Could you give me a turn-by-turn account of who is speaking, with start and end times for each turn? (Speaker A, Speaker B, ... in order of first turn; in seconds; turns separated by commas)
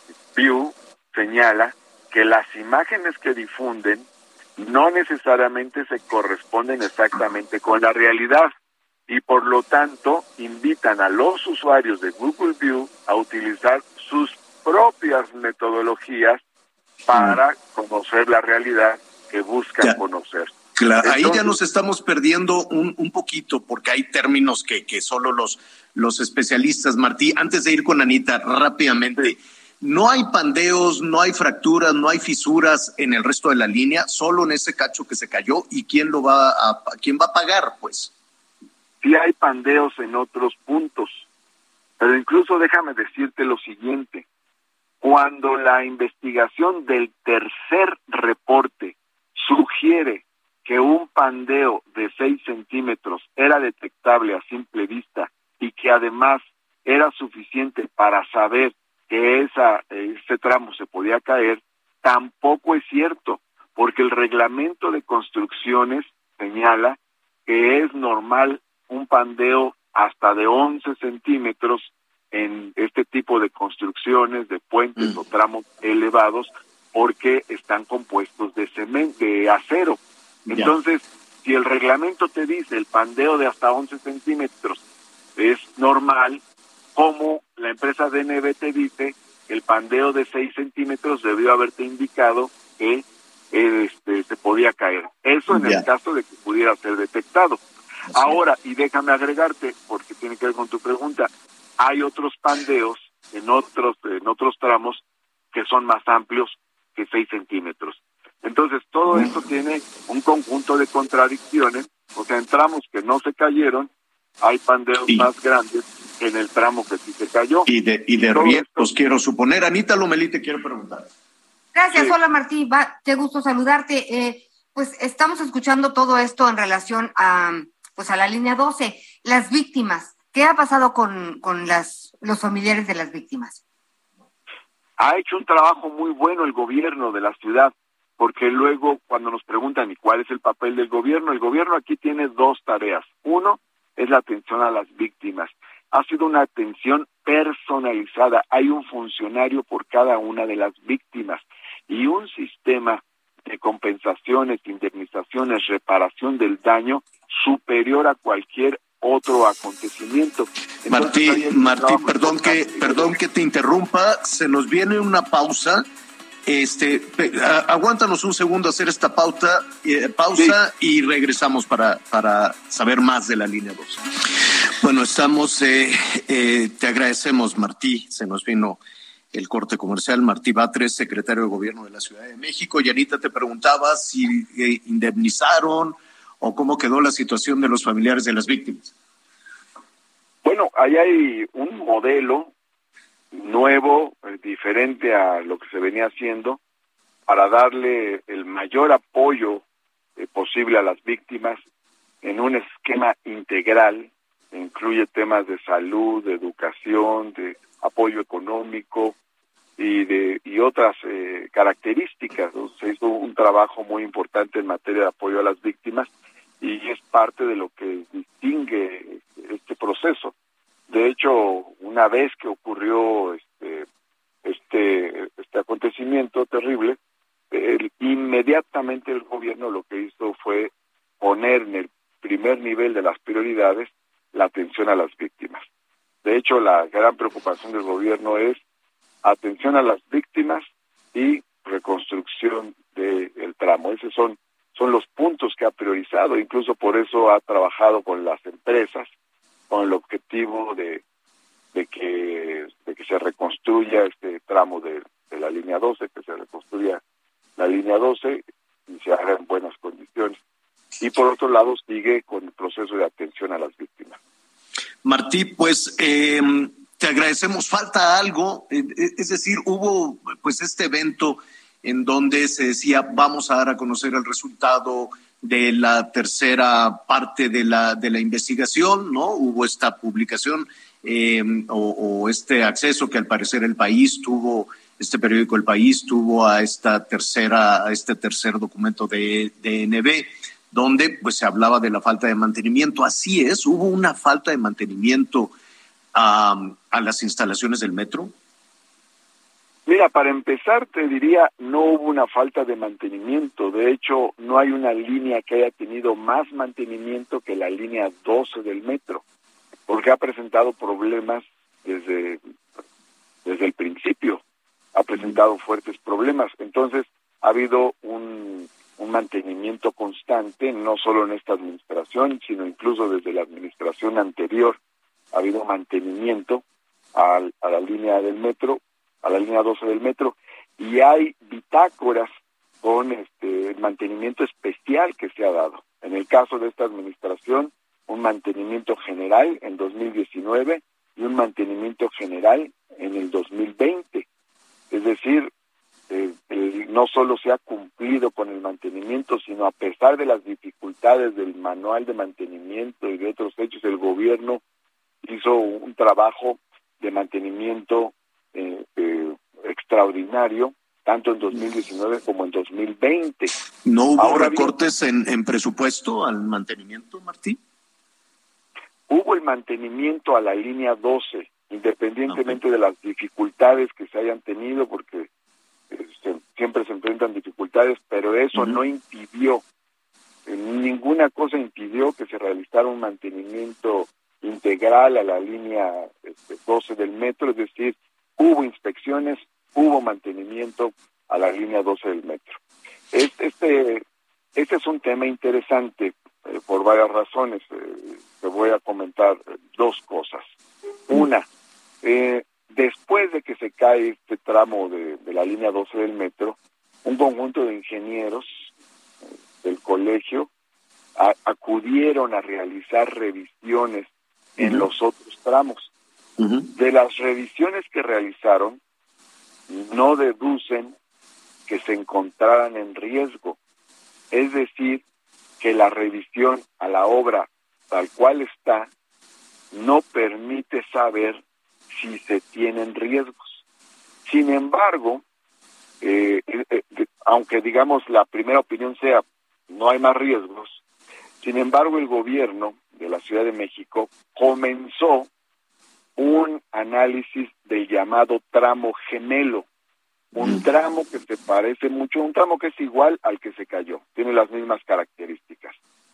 Speaker A: 0.3-8.5, Speaker A: 9.1-16.4, Speaker A: 17.1-21.6, Speaker B: 17.1-17.4, Speaker B: 20.8-38.1, Speaker A: 39.0-41.2, Speaker A: 42.0-44.2, Speaker A: 45.0-84.8, Speaker B: 80.5-80.8, Speaker A: 85.4-86.4, Speaker A: 87.0-97.6, Speaker B: 95.5-95.8, Speaker B: 98.1-98.4, Speaker A: 98.1-113.9, Speaker B: 109.1-109.3, Speaker A: 114.4-117.7, Speaker B: 117.7-121.1, Speaker A: 118.3-118.9, Speaker C: 121.7-133.6, Speaker A: 135.0-163.1, Speaker B: 160.9-165.8, Speaker B: 166.4-178.8, Speaker B: 179.3-188.9, Speaker A: 190.4-192.5, Speaker A: 193.3-196.6, Speaker A: 197.3-199.6, Speaker A: 200.2-201.6, Speaker A: 202.2-209.1, Speaker A: 209.8-216.1, Speaker A: 216.6-220.3, Speaker A: 220.9-223.9, Speaker A: 224.4-227.0, Speaker A: 227.5-235.6, Speaker A: 236.2-238.6, Speaker A: 239.2-249.1, Speaker A: 249.7-251.0, Speaker A: 251.7-257.0, Speaker A: 257.6-260.4, Speaker A: 261.0-264.2, Speaker B: 265.0-295.5, Speaker B: 296.1-298.3, Speaker A: 299.9-309.2, Speaker A: 309.9-312.4, Speaker A: 313.4-314.4, Speaker A: 314.9-324.8, Speaker A: 325.3-326.6, Speaker A: 327.1-332.3, Speaker A: 332.8-344.2, Speaker A: 344.9-345.5, Speaker A: 346.1-354.6, Speaker A: 355.2-363.5, Speaker B: 363.8-367.6, Speaker A: 364.2-364.7, Speaker A: 369.1-375.3, Speaker B: 372.3-372.6, Speaker A: 375.9-379.6, Speaker B: 378.5-378.8, Speaker A: 380.4-392.6, Speaker A: 393.1-394.0, Speaker A: 394.6-400.4, Speaker A: 401.1-401.5, Speaker A: 402.0-408.7, Speaker A: 409.6-410.5, Speaker A: 411.1-415.9, Speaker B: 414.6-414.9, Speaker B: 416.4-416.7, Speaker A: 416.7-418.8, Speaker A: 419.7-420.9, Speaker A: 421.7-423.6, Speaker A: 424.3-425.0, Speaker A: 425.6-428.9, Speaker A: 429.7-433.6, Speaker A: 434.2-435.2, Speaker A: 436.0-440.8, Speaker A: 441.4-445.3, Speaker A: 446.2-449.6, Speaker A: 450.3-455.8, Speaker B: 450.4-450.6